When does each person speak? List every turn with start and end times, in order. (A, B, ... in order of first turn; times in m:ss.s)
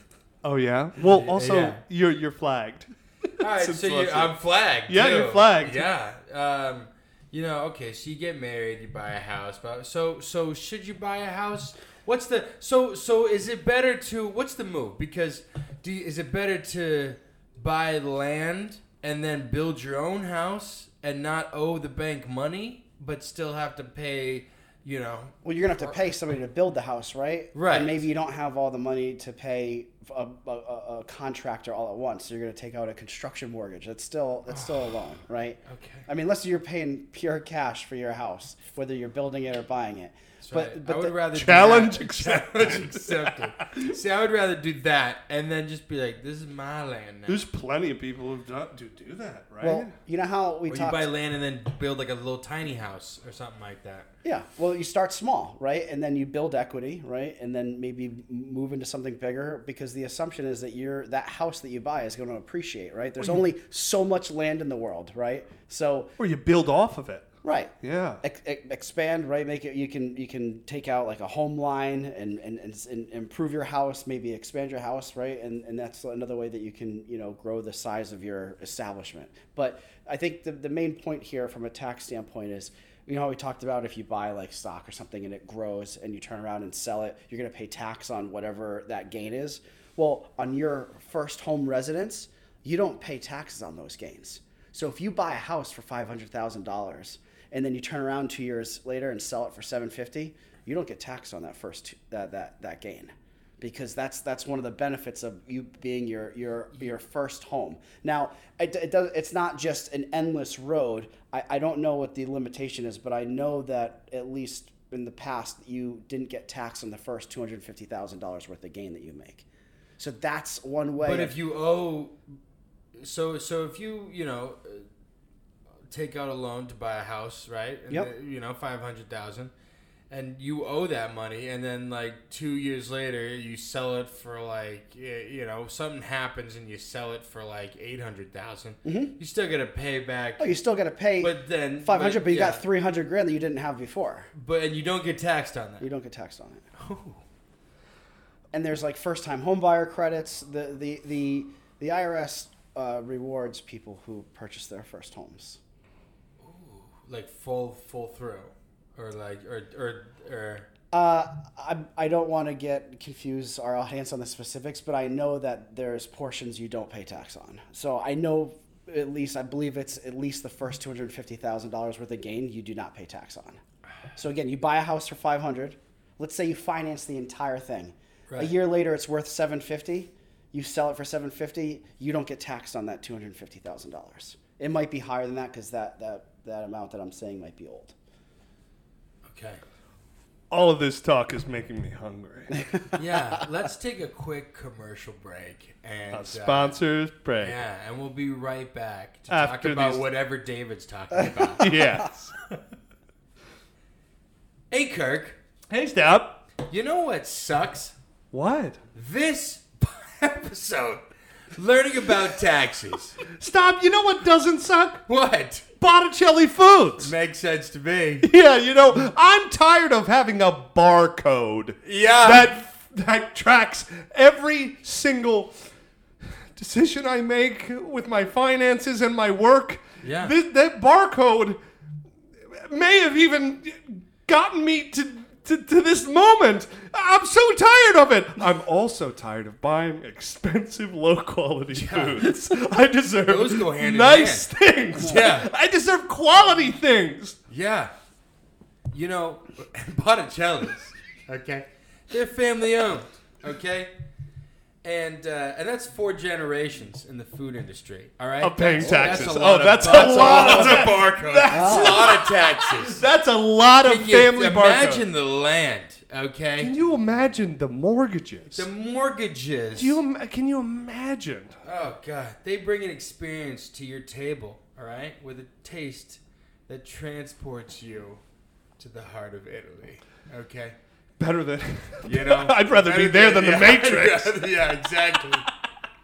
0:00.4-0:02.9 A
0:01.1-0:01.8 B
0:03.4-0:25.9 B
0:03.6-0:04.3 A
0:04.9-0:05.9 A
0:25.4-0:41.1 C
0:27.5-0:28.0 B
0:34.5-0:35.0 B
0:35.6-0:36.1 B
0:40.4-0:47.4 B
0:41.3-0:43.9 A
0:47.3-0:49.9 A
0:49.6-0:51.1 C
0:50.7-0:54.1 B
0:54.2-1:06.1 C
1:06.2-1:07.3 A
1:07.4-1:59.5 C
1:07.8-1:08.2 A
2:00.0-2:01.3 C
2:01.0-2:02.2 B
2:03.0-2:04.9 B
2:05.9-2:09.5 B
2:10.1-2:20.6 B
2:18.8-2:19.1 C
2:20.4-2:24.3 C
2:21.2-2:22.6 B
2:24.3-2:25.9 B
2:25.8-2:26.6 C
2:26.8-2:27.2 B
2:28.5-2:35.6 C
2:36.4-2:40.7 B
2:40.9-2:53.6 C
2:54.2-3:07.9 C
2:58.3-2:58.6 B
3:09.2-3:09.6 B
3:10.5-3:12.6 A
3:12.6-3:13.0 C
3:13.0-3:16.8 B
3:16.1-3:17.6 A
3:17.4-3:21.7 B
3:19.3-3:20.0 A
3:21.4-3:21.8 C
3:21.6-3:22.3 A
3:24.7-3:25.4 B
3:25.7-3:26.4 A
3:26.7-3:28.0 B
3:28.3-3:28.8 A
3:29.0-3:31.0 B
3:31.6-3:33.2 B
3:33.3-3:35.0 A
3:35.1-3:35.6 B
3:35.8-3:37.1 A
3:37.0-3:38.3 B
3:38.2-3:45.5 A
3:41.8-3:42.5 B
3:46.6-3:51.6 A
3:50.0-3:50.3 B
3:52.5-4:07.4 A
4:01.7-4:02.3 B
4:03.3-4:05.5 B
4:07.5-4:07.9 B
4:08.9-4:13.9 B
4:14.8-4:23.0 B
4:18.4-4:25.0 A
4:18.8-4:19.3 C
4:21.5-4:22.2 C
4:23.8-4:26.7 B
4:26.6-4:28.7 A
4:28.5-4:30.0 B
4:29.8-4:31.6 A
4:31.6-4:38.2 B
4:38.8-4:40.8 B
4:41.2-4:44.6 A
4:42.0-4:45.4 B